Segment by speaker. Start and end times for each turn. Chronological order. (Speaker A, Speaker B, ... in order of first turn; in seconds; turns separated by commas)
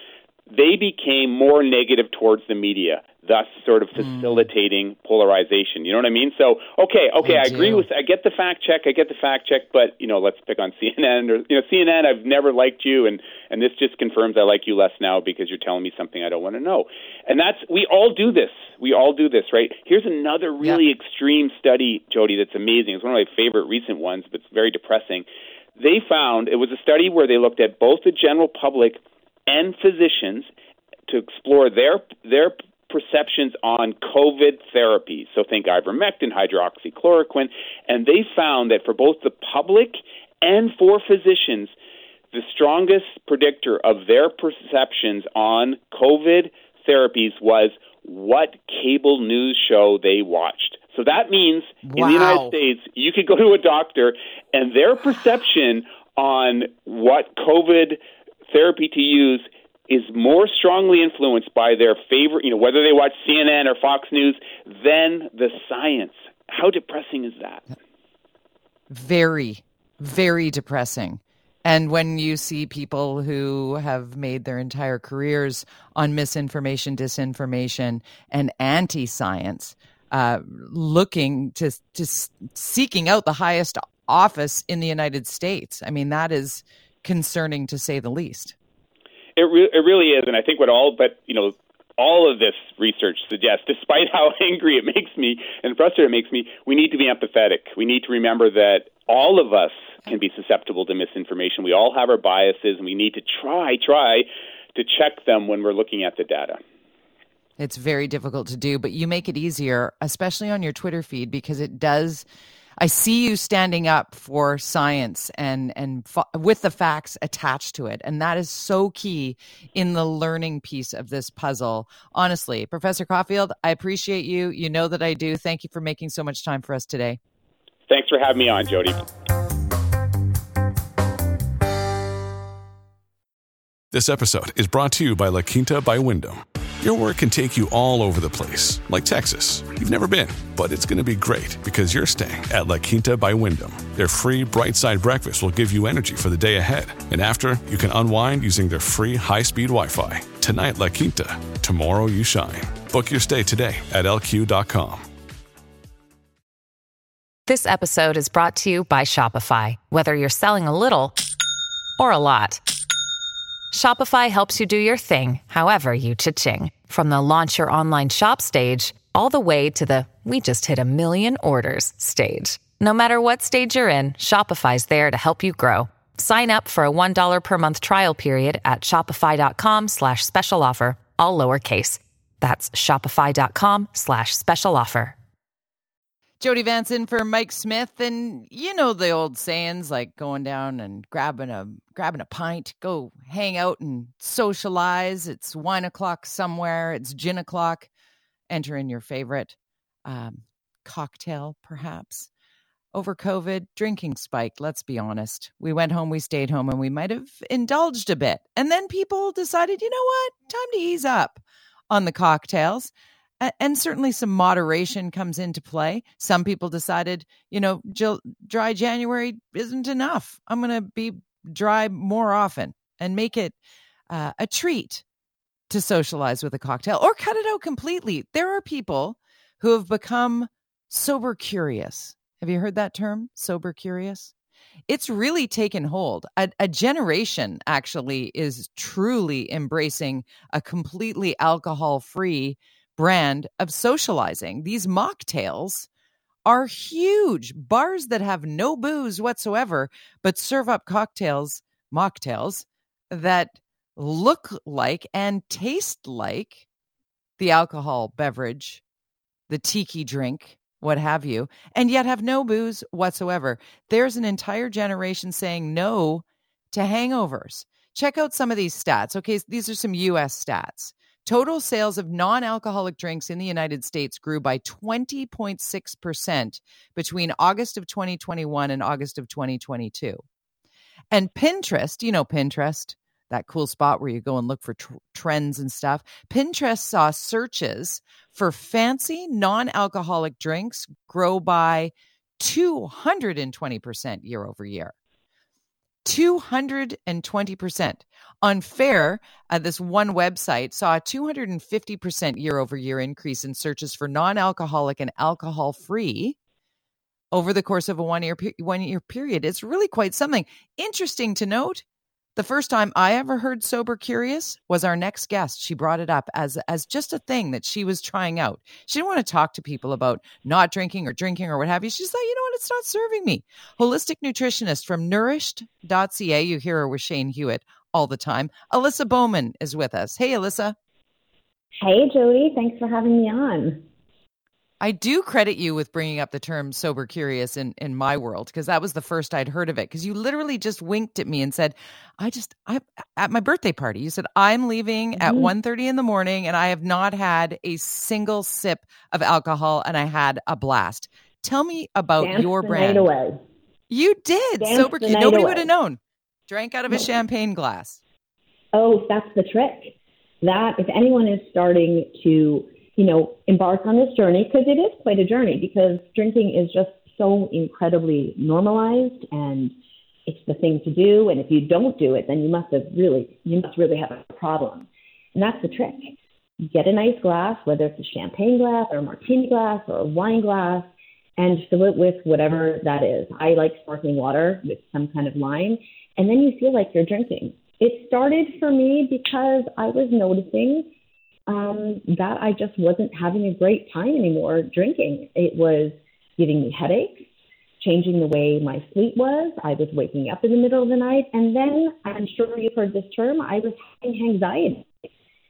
Speaker A: 0.5-25.2, Speaker B: 4.0-4.5, Speaker B: 7.2-7.8, Speaker A: 25.8-30.5, Speaker A: 31.1-41.7, Speaker A: 42.3-58.0, Speaker B: 51.9-52.6, Speaker A: 58.5-67.6, Speaker B: 68.9-88.5, Speaker A: 89.4-106.6, Speaker B: 107.6-112.3, Speaker B: 112.8-127.2, Speaker A: 127.9-129.0, Speaker C: 133.9-155.1, Speaker D: 157.5-161.2, Speaker D: 162.0-162.6, Speaker D: 163.7-185.2, Speaker B: 186.4-197.9, Speaker B: 198.5-202.3, Speaker B: 202.9-223.6, Speaker B: 224.1-225.0, Speaker B: 225.7-234.3, Speaker B: 234.9-245.9, Speaker B: 246.4-256.6, Speaker B: 257.4-258.8, Speaker B: 259.5-280.2, Speaker B: 281.1-294.9, Speaker B: 296.0-306.4, Speaker B: 307.3-311.8, Speaker B: 312.4-330.8, Speaker E: 331.8-333.8, Speaker B: 334.8-353.1, Speaker E: 345.1-345.5, Speaker E: 352.2-353.4, Speaker B: 353.9-358.0, Speaker E: 354.6-355.7, Speaker E: 358.7-369.7, Speaker E: 370.3-376.1, Speaker E: 376.7-390.9, Speaker E: 391.5-397.3, Speaker E: 397.8-404.9